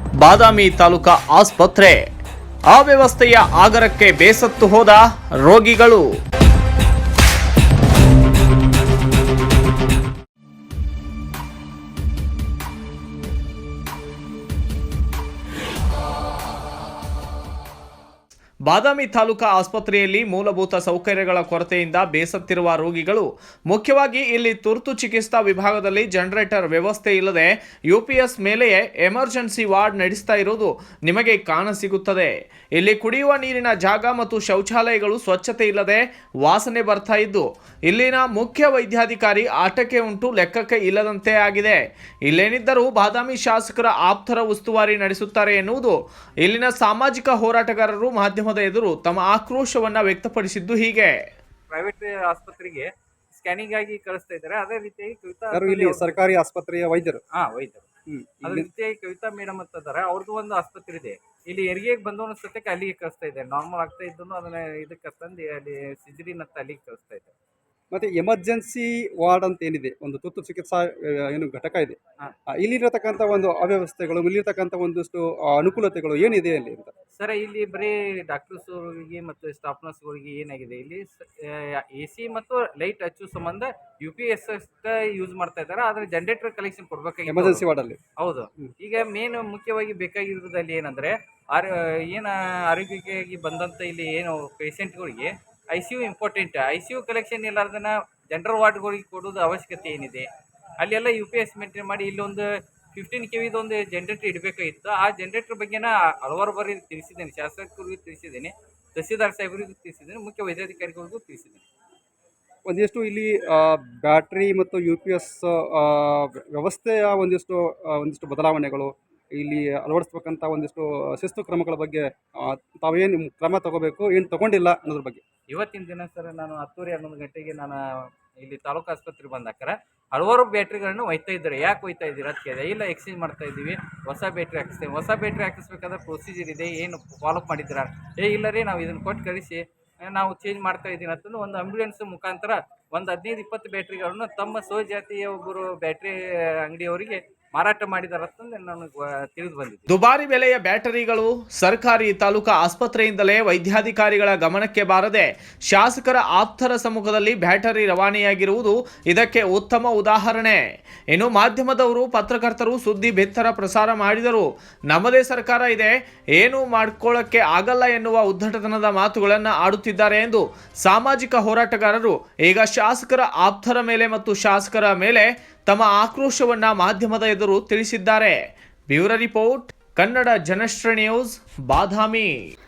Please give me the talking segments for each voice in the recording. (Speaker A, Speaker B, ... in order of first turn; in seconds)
Speaker A: 0.2-2.0, 2.7-6.0, 18.7-51.2, 149.9-160.6, 161.1-178.4, 178.9-182.3
Speaker B: 51.7-56.2, 57.3-57.8, 58.4-67.3, 77.1-87.7, 88.2-100.3, 100.8-111.7, 125.5-127.8, 128.4-149.9
Speaker C: 55.5-57.2, 58.1-58.7, 67.9-72.0, 72.5-76.9, 87.3-88.0, 112.7-125.2